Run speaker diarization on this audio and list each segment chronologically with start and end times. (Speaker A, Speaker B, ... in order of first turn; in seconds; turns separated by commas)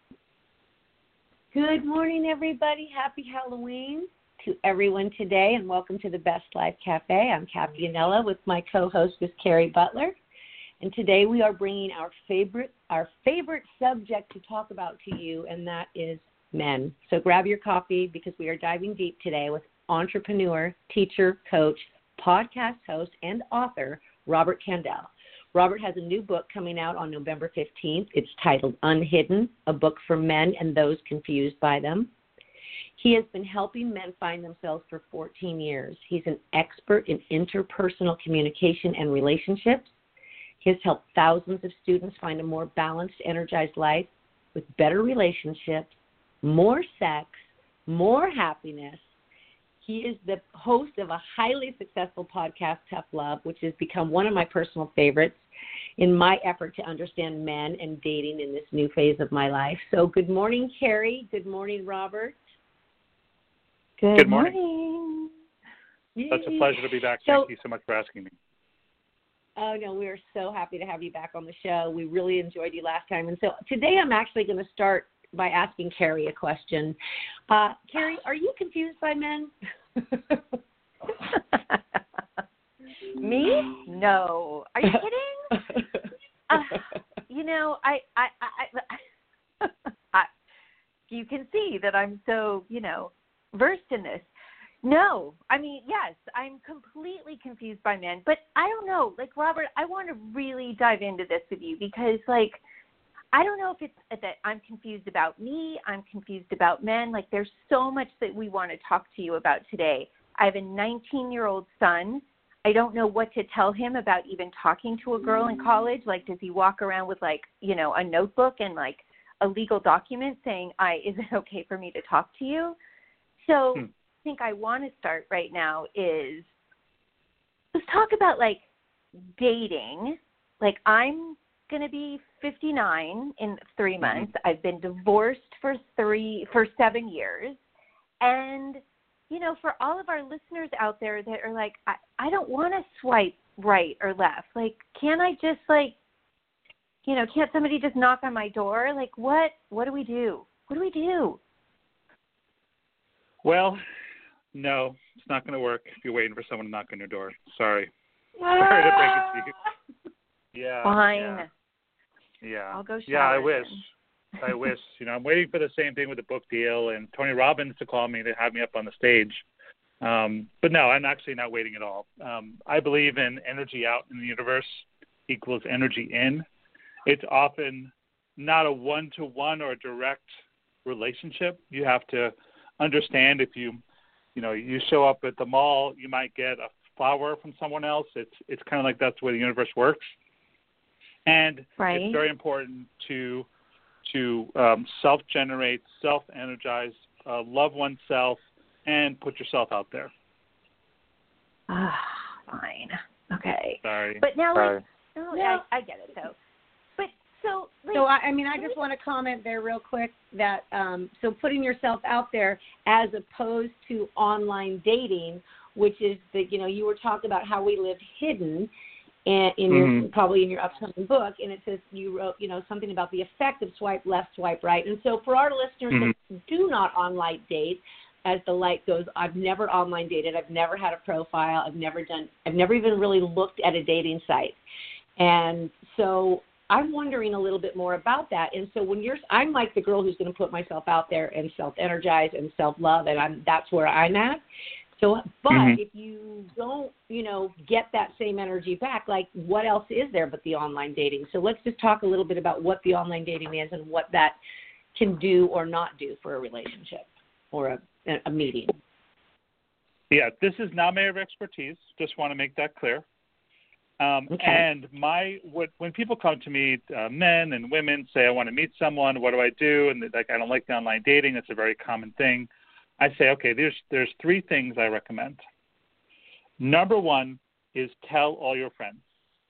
Speaker A: 1.5-10.2, Speaker A: 10.8-32.1, Speaker A: 33.0-40.0, Speaker A: 40.6-49.1, Speaker A: 49.8-55.4, Speaker A: 56.0-62.4, Speaker B: 64.0-65.3, Speaker C: 64.2-64.5, Speaker A: 66.2-67.5, Speaker C: 66.3-68.3, Speaker A: 69.6-77.0, Speaker A: 77.5-80.4, Speaker B: 83.2-85.5, Speaker B: 86.5-89.0, Speaker B: 89.6-90.3, Speaker B: 91.1-94.3, Speaker B: 94.8-102.6, Speaker B: 103.3-122.8, Speaker B: 123.4-126.5, Speaker B: 127.7-128.6, Speaker B: 129.4-137.6, Speaker C: 134.0-134.3, Speaker B: 138.2-145.9, Speaker B: 147.1-151.4, Speaker C: 153.4-153.8, Speaker C: 154.5-157.9, Speaker A: 158.4-159.4, Speaker C: 158.5-159.6, Speaker C: 160.5-161.4, Speaker B: 160.8-161.5, Speaker C: 162.4-163.8, Speaker B: 162.7-163.8, Speaker C: 164.4-169.4, Speaker C: 170.0-176.4, Speaker C: 177.1-180.3, Speaker C: 180.8-183.8, Speaker C: 184.3-190.1, Speaker C: 191.3-193.5, Speaker B: 191.8-192.2, Speaker C: 194.1-200.1, Speaker B: 201.7-206.3, Speaker C: 203.8-204.8, Speaker A: 205.3-205.6, Speaker B: 207.0-208.8, Speaker A: 207.9-218.7, Speaker A: 219.3-234.6, Speaker C: 219.7-220.1, Speaker A: 235.2-244.4, Speaker A: 244.9-254.4, Speaker C: 245.5-245.8, Speaker A: 254.9-258.8, Speaker C: 260.1-263.0, Speaker C: 264.0-272.5, Speaker A: 264.3-264.6, Speaker C: 273.0-275.4, Speaker C: 276.6-279.0